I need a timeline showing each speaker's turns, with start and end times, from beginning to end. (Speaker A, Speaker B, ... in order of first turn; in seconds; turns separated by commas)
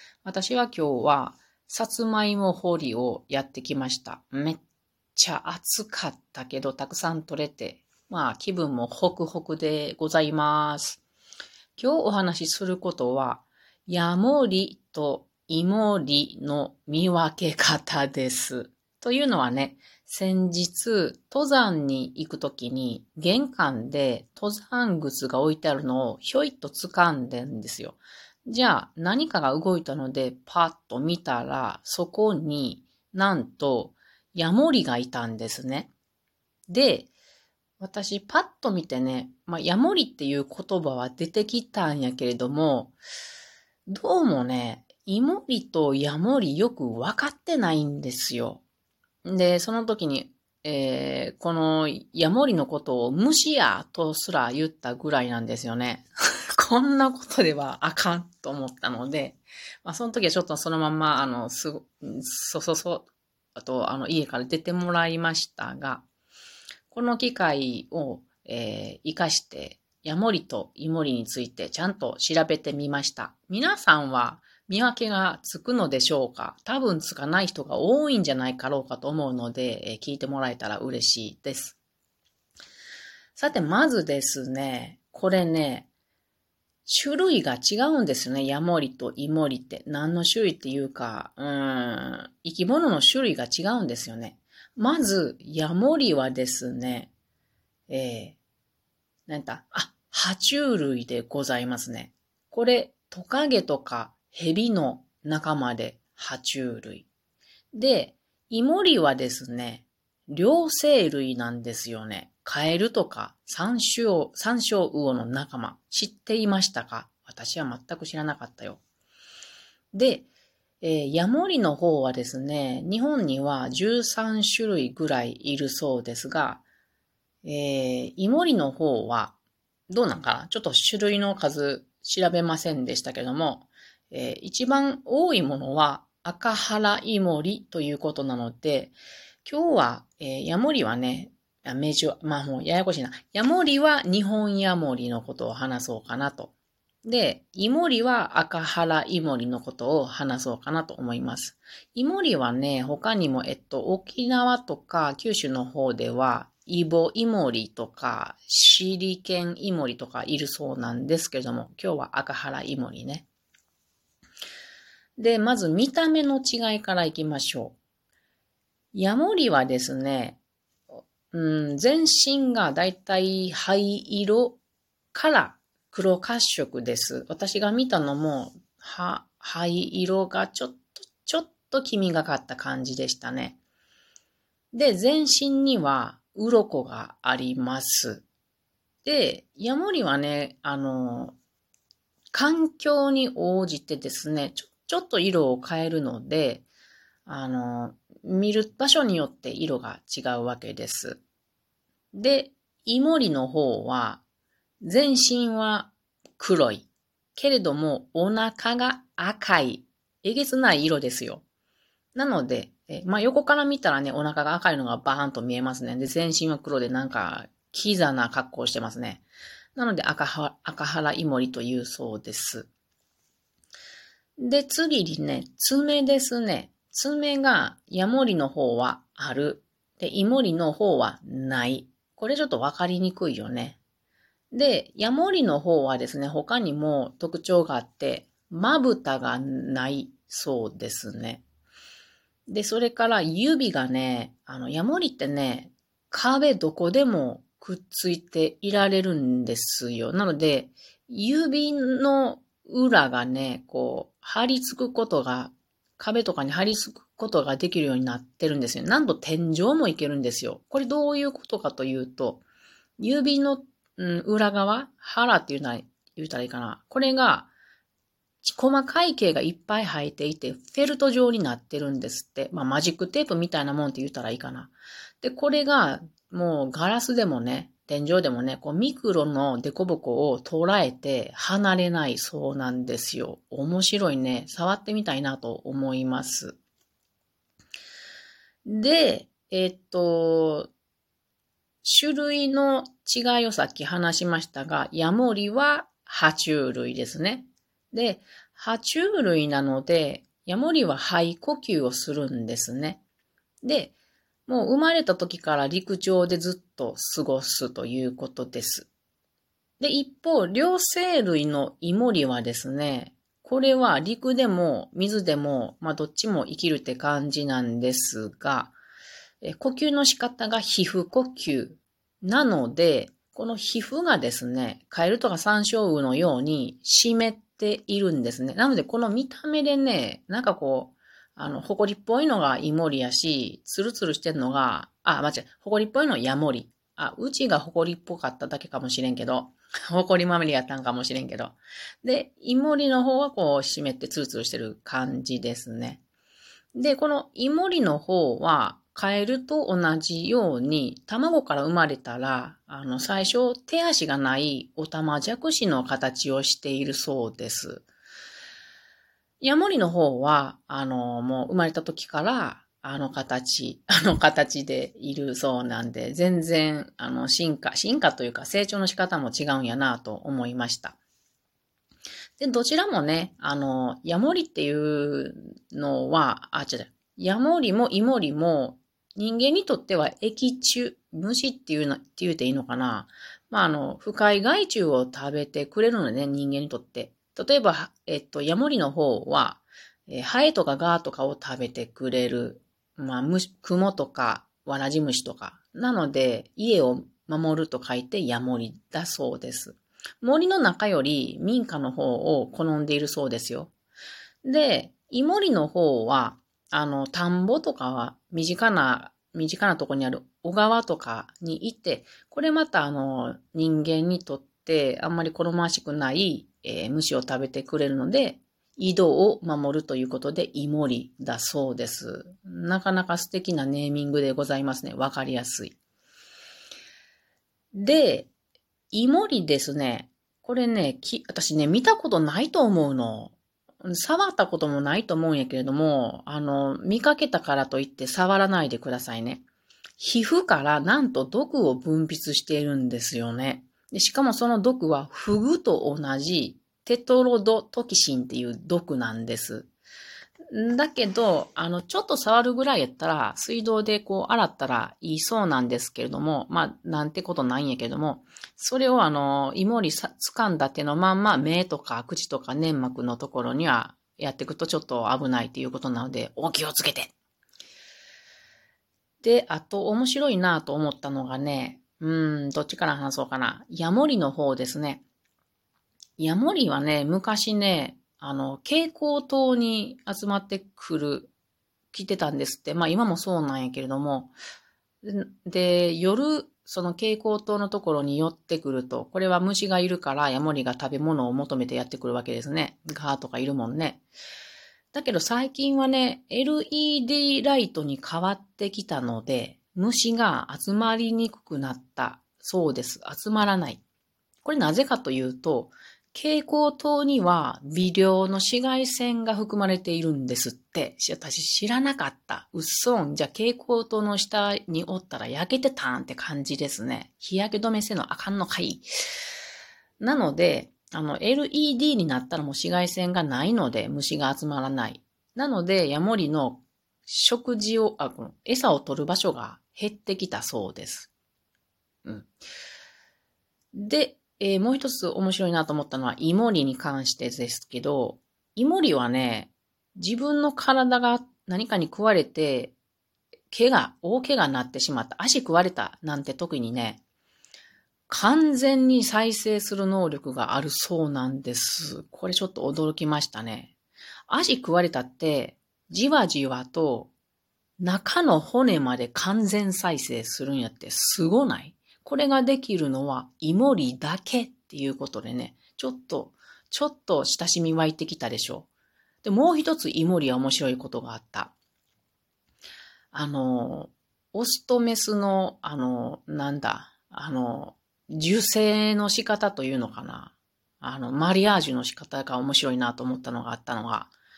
Speaker A: 0.2-4.6, Speaker A: 5.2-11.0, Speaker A: 11.8-35.9, Speaker A: 36.7-37.1, Speaker A: 37.8-42.9, Speaker A: 43.9-48.6, Speaker A: 49.2-66.0, Speaker A: 66.9-81.8, Speaker A: 83.3-85.9, Speaker A: 86.8-97.1, Speaker A: 97.9-98.4, Speaker A: 99.3-107.1, Speaker A: 107.7-118.8, Speaker A: 119.9-120.3, Speaker A: 120.8-126.6, Speaker A: 127.4-129.3, Speaker A: 129.9-146.5, Speaker A: 147.0-163.3, Speaker A: 165.2-167.8, Speaker A: 168.9-170.4, Speaker A: 171.3-174.6, Speaker A: 175.1-183.6, Speaker A: 184.7-188.2, Speaker A: 189.0-191.3, Speaker A: 192.3-196.7, Speaker A: 197.2-201.2, Speaker A: 202.1-204.2, Speaker A: 204.8-211.4, Speaker A: 212.1-222.7, Speaker A: 224.4-233.8, Speaker A: 234.5-241.4, Speaker A: 242.5-262.4, Speaker A: 263.0-267.5, Speaker A: 268.4-286.6, Speaker A: 288.6-290.7, Speaker A: 291.8-303.0, Speaker A: 303.6-303.9, Speaker A: 304.5-308.9, Speaker A: 309.8-318.7, Speaker A: 319.4-346.0, Speaker A: 346.7-357.9, Speaker A: 359.4-371.0, Speaker A: 372.4-403.7, Speaker A: 404.4-425.7, Speaker A: 427.7-428.3, Speaker A: 428.9-439.4, Speaker A: 440.0-449.7, Speaker A: 450.5-467.1, Speaker A: 469.2-475.0, Speaker A: 476.2-481.3, Speaker A: 481.9-484.3, Speaker A: 485.0-494.0, Speaker A: 494.9-503.8, Speaker A: 504.4-518.9, Speaker A: 520.0-531.1, Speaker A: 532.0-532.3, Speaker A: 533.7-542.7, Speaker A: 543.5-547.0, Speaker A: 548.1-553.7, Speaker A: 554.3-557.1, Speaker A: 557.8-568.7, Speaker A: 569.2-571.5, Speaker A: 573.1-584.1